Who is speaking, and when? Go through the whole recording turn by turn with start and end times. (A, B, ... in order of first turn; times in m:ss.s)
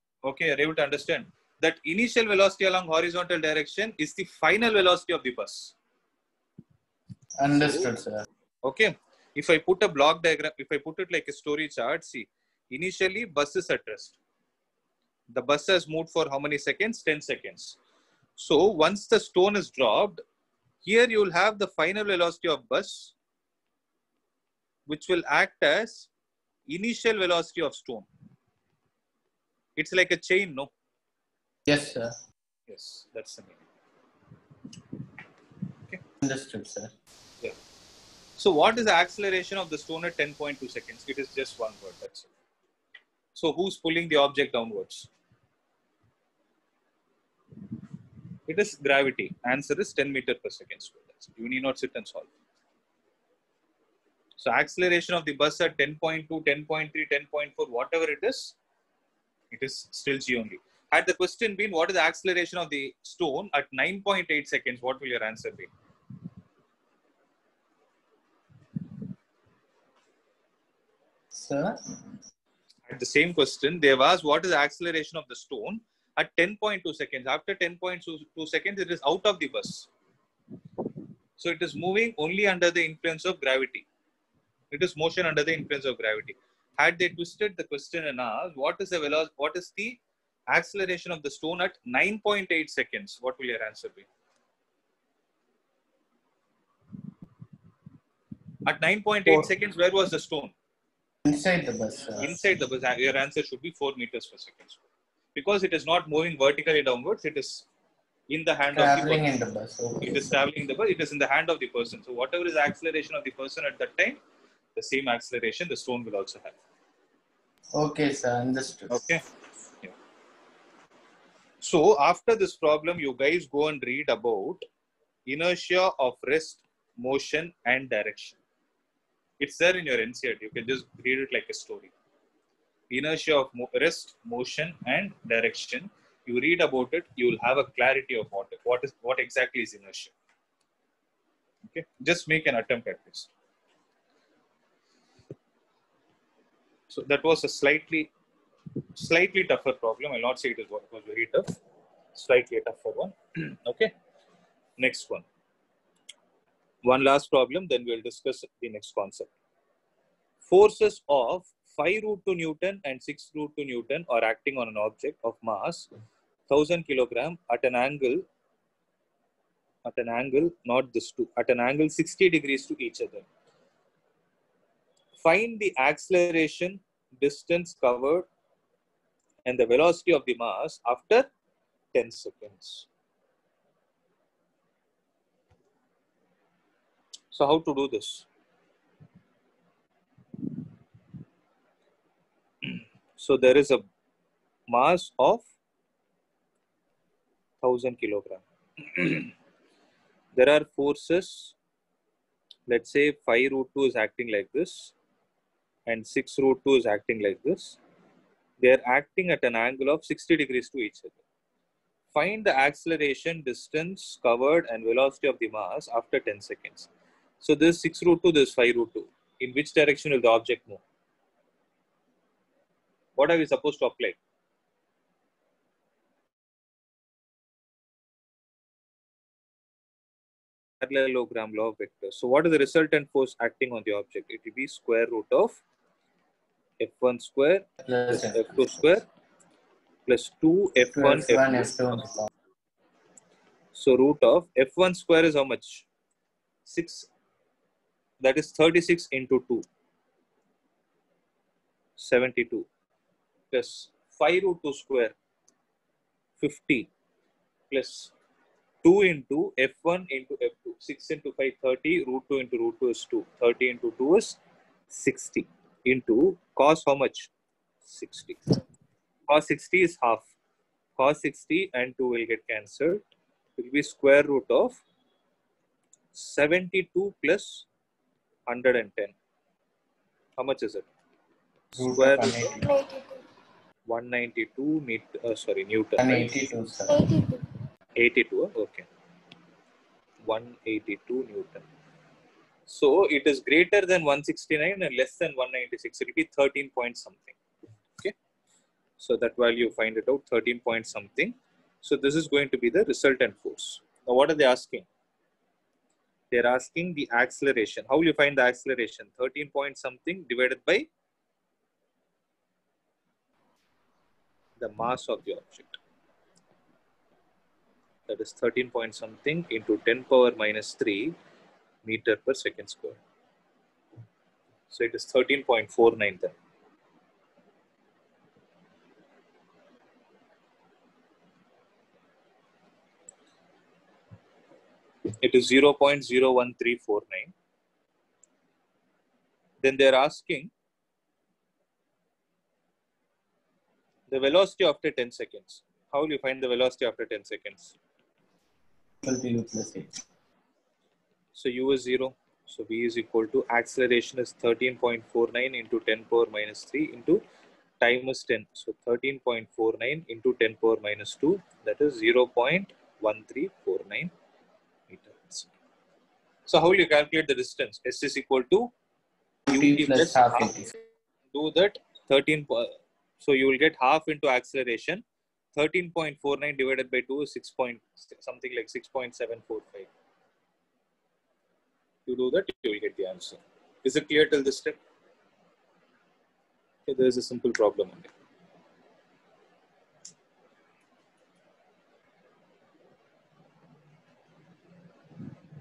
0:00.2-0:05.8 A
0:07.4-0:08.2 B
0:07.5-0:07.9 A
0:08.6-0:14.2 A
0:15.3-0:17.8 A
0:18.4-0:20.2 A
0:20.8-0:23.1 A
0:24.9-0:26.1 A
0:26.7-0:28.1 A
0:29.8-0:30.7 A
0:31.7-0:32.2 B
0:32.7-0:33.6 A
0:36.2-0:36.9 B
0:38.4-0:42.3 A
0:43.4-0:45.1 A
0:48.5-0:52.3 A
0:54.4-0:58.6 A
0:59.5-1:05.7 A
1:11.3-1:11.8 B
1:12.9-1:19.9 A
1:21.4-1:23.9 A
1:24.7-1:34.1 A
1:38.6-1:40.5 A
1:41.2-1:42.3 B
1:42.2-1:44.8 A
1:45.4-1:47.7 A
1:48.3-1:49.3 A
1:48.7-1:50.3 B
1:50.0-1:54.2 A
1:54.8-1:56.6 A
1:57.7-1:59.1 B
1:58.9-1:59.2 A
2:01.6-2:04.7 A
2:05.3-2:08.4 A
2:09.4-2:11.9 A
2:12.9-2:20.1 A
2:21.7-2:23.3 A
2:26.9-2:28.1 A
2:29.0-2:31.6 A
2:32.1-2:33.9 A
2:34.8-2:35.3 A
2:36.8-2:39.3 A
2:40.4-2:45.9 A
2:46.5-2:48.3 A
2:49.8-2:53.3 A
2:55.2-2:58.3 A
2:59.4-3:01.3 A
3:01.9-3:02.9 A
3:07.3-3:08.3 A
3:12.6-3:13.9 A
3:14.7-3:15.5 A
3:17.6-3:19.3 A
3:20.3-3:21.6 A
3:22.7-3:24.9 A
3:25.9-3:27.8 A
3:28.6-3:31.2 A
3:32.1-3:36.9 A
3:37.4-3:40.8 A
3:43.2-3:44.2 A
3:50.8-3:55.6 A
3:56.8-3:59.0 A
3:57.8-3:58.8 B
4:00.1-4:02.1 A
4:00.9-4:02.3 B
4:03.7-4:05.8 A
4:06.7-4:07.1 A
4:08.2-4:09.7 A
4:12.0-4:12.7 A
4:13.5-4:15.1 A
4:16.4-4:16.9 A
4:17.7-4:18.1 A
4:18.8-4:24.4 A
4:24.9-4:27.3 A
4:27.8-4:28.4 A
4:29.3-4:30.3 A
4:31.0-4:33.0 A
4:33.6-4:34.8 A
4:36.1-4:37.7 A
4:38.5-4:39.2 A
4:40.4-4:40.9 A
4:41.7-4:42.7 A
4:41.8-4:42.7 B
4:43.9-4:46.4 A
4:46.0-4:47.1 B
4:48.0-4:48.9 A
4:50.2-4:51.7 A
4:52.7-4:57.4 A
4:59.0-5:04.9 A
5:06.3-5:10.9 A
5:14.6-5:15.8 A
5:18.1-5:21.2 A
5:21.8-5:23.0 A
5:24.7-5:26.4 A
5:35.2-5:37.3 A
5:39.6-5:40.5 A
5:44.1-5:47.8 A
5:49.0-5:49.9 B
5:51.3-5:57.2 A
5:57.8-6:04.1 A
6:04.9-6:05.5 A
6:06.4-6:08.7 A
6:09.5-6:10.7 B
6:09.5-6:10.7 A
6:11.3-6:15.0 A
6:15.6-6:19.9 A
6:22.1-6:24.8 A
6:26.9-6:28.1 A